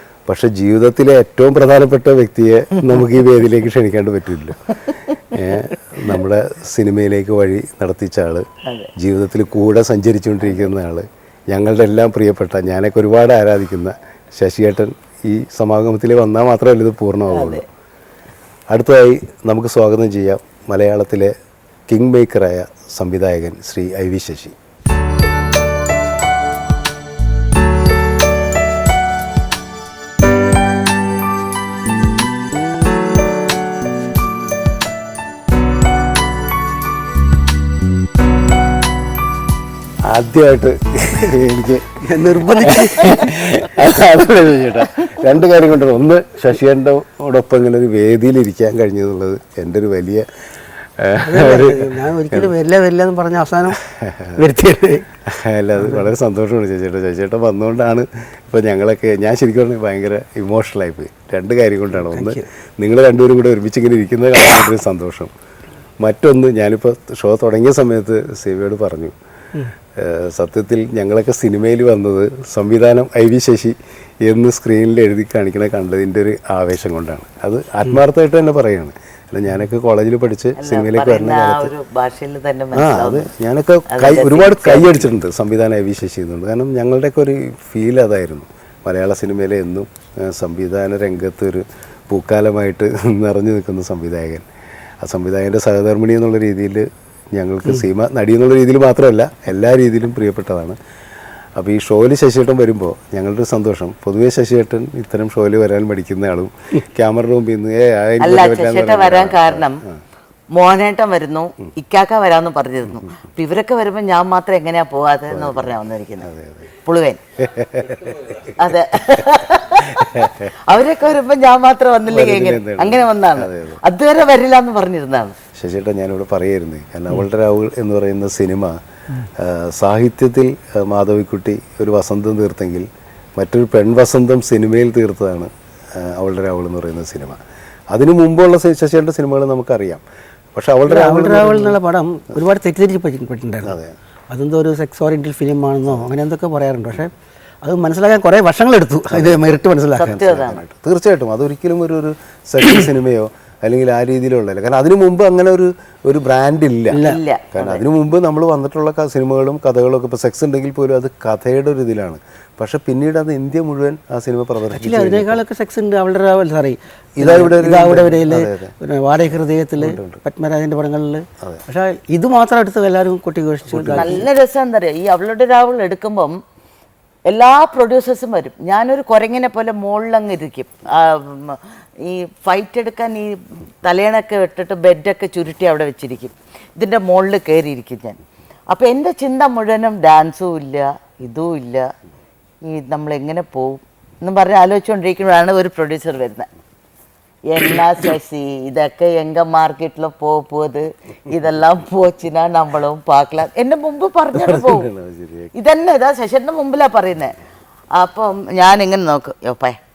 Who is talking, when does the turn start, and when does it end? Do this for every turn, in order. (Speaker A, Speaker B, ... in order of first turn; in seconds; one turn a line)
Speaker A: 0.3-8.4
Speaker B: 8.7-8.9
Speaker A: 9.0-17.6
Speaker B: 10.4-10.7
Speaker B: 17.3-17.6
Speaker A: 18.7-21.3
Speaker A: 21.9-24.6
Speaker A: 40.0-42.0
Speaker C: 42.0-43.3
Speaker A: 42.6-50.2
Speaker A: 51.0-52.5
Speaker C: 51.2-53.8
Speaker A: 53.8-54.4
Speaker C: 54.4-55.1
Speaker A: 55.3-65.3
Speaker C: 55.8-56.0
Speaker C: 62.1-62.5
Speaker A: 66.0-69.1
Speaker A: 70.0-81.7
Speaker B: 80.6-83.3
Speaker A: 82.7-94.4
Speaker B: 83.9-85.1
Speaker A: 95.0-100.8
Speaker A: 101.6-110.0
Speaker B: 108.2-109.8
Speaker B: 110.5-116.3
Speaker A: 115.3-116.7
Speaker B: 116.8-117.2
Speaker A: 117.4-118.5
Speaker B: 118.6-125.3
Speaker A: 120.0-120.4
Speaker A: 122.0-123.8
Speaker A: 125.5-137.4
Speaker A: 137.9-140.0
Speaker A: 140.5-141.8
Speaker C: 140.9-143.8
Speaker A: 143.6-143.9
Speaker C: 144.3-147.1
Speaker C: 147.6-150.2
Speaker A: 149.1-149.4
Speaker B: 150.0-150.6
Speaker A: 150.1-157.0
Speaker C: 156.9-157.2
Speaker B: 157.0-157.8
Speaker A: 157.5-165.4
Speaker C: 164.7-174.3
Speaker A: 167.2-168.7
Speaker A: 169.8-170.2
Speaker A: 173.7-174.2
Speaker B: 173.9-176.3
Speaker B: 177.3-188.2
Speaker B: 188.7-191.9
Speaker B: 192.6-196.5
Speaker B: 197.5-204.9
Speaker A: 204.3-205.5
Speaker B: 205.5-207.3
Speaker B: 207.9-209.8